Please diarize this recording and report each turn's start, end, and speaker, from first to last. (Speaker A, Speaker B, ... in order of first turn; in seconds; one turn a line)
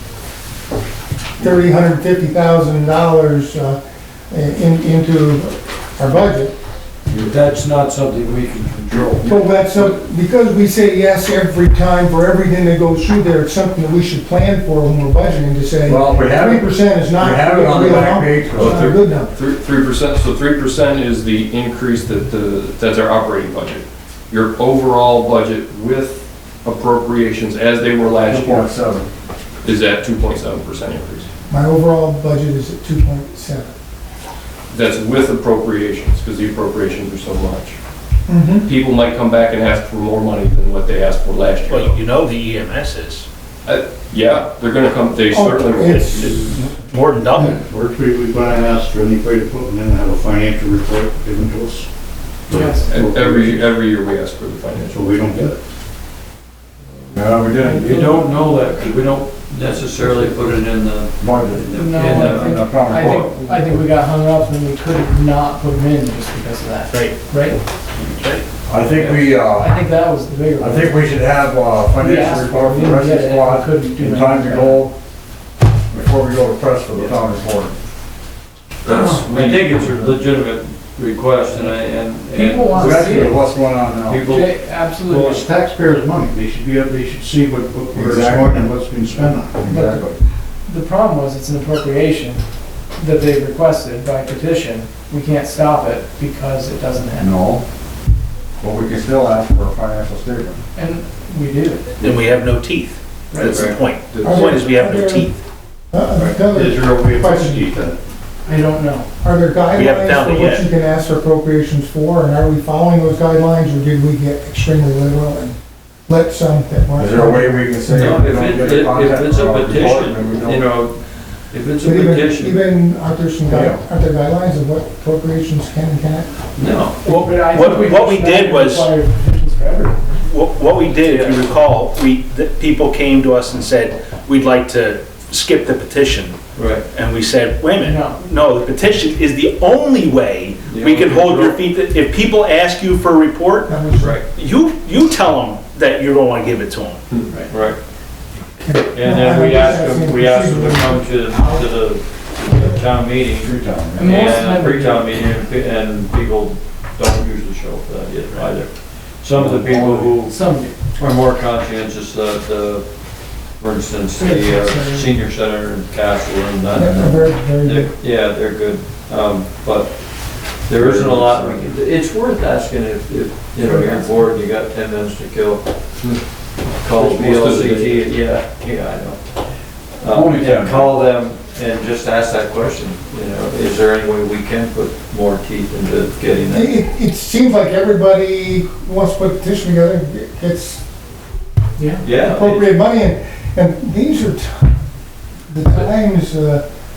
Speaker A: 1.4-3.8
Speaker A: 4.3-6.5
Speaker B: 7.1-9.6
Speaker A: 9.2-19.3
Speaker C: 15.8-18.8
Speaker D: 18.6-28.7
Speaker C: 28.2-29.1
Speaker D: 29.6-31.3
Speaker A: 31.5-33.7
Speaker D: 34.7-37.8
Speaker A: 38.3-38.7
Speaker D: 38.6-42.0
Speaker E: 41.6-43.2
Speaker D: 43.6-46.7
Speaker A: 45.3-46.7
Speaker E: 46.8-47.6
Speaker F: 47.4-51.9
Speaker F: 52.5-53.6
Speaker G: 52.5-53.0
Speaker D: 52.9-55.4
Speaker F: 54.9-55.5
Speaker C: 57.1-58.2
Speaker B: 57.6-63.2
Speaker C: 61.2-63.6
Speaker G: 61.7-67.6
Speaker E: 66.9-67.2
Speaker E: 68.0-68.4
Speaker C: 68.7-69.8
Speaker G: 69.0-71.2
Speaker C: 70.6-74.9
Speaker G: 71.9-74.9
Speaker C: 75.9-77.7
Speaker B: 78.8-83.5
Speaker G: 79.0-79.3
Speaker G: 81.5-83.4
Speaker C: 82.7-84.2
Speaker B: 84.1-85.5
Speaker G: 84.2-85.5
Speaker F: 85.2-89.7
Speaker C: 87.9-88.7
Speaker C: 89.6-90.2
Speaker G: 89.6-90.1
Speaker G: 90.6-97.3
Speaker C: 97.2-97.6
Speaker C: 98.6-100.6
Speaker G: 100.7-102.0
Speaker E: 102.0-105.3
Speaker B: 103.4-103.8
Speaker D: 104.1-104.4
Speaker A: 104.2-105.3
Speaker A: 105.9-107.6
Speaker F: 106.4-108.0
Speaker G: 108.4-109.1
Speaker A: 109.2-115.5
Speaker E: 109.7-110.7
Speaker A: 116.1-118.2
Speaker C: 117.0-120.6
Speaker B: 117.9-121.0
Speaker B: 121.5-122.7
Speaker A: 121.8-126.3
Speaker C: 123.5-123.8
Speaker B: 126.5-127.1
Speaker G: 127.0-130.1
Speaker E: 127.0-128.9
Speaker E: 130.2-136.4
Speaker B: 130.9-131.6
Speaker B: 136.5-136.8
Speaker E: 136.9-143.7
Speaker G: 137.8-138.2
Speaker B: 140.7-141.6
Speaker A: 143.7-144.2
Speaker B: 144.0-144.2
Speaker E: 144.2-147.0
Speaker B: 147.5-147.8
Speaker A: 148.6-151.8
Speaker B: 148.9-160.4
Speaker A: 152.5-152.8
Speaker C: 153.3-154.2
Speaker G: 153.9-155.2
Speaker C: 159.3-160.2
Speaker G: 160.2-160.7
Speaker B: 160.9-162.9
Speaker B: 163.5-170.0
Speaker A: 164.2-165.2
Speaker A: 166.7-167.9
Speaker B: 170.6-175.6
Speaker C: 170.7-171.7
Speaker A: 173.6-174.1
Speaker B: 176.8-179.2
Speaker D: 176.9-178.1
Speaker B: 180.0-186.8
Speaker C: 180.1-180.9
Speaker A: 186.5-190.8
Speaker G: 191.8-192.0
Speaker B: 192.0-192.8
Speaker A: 192.1-194.7
Speaker A: 195.5-196.6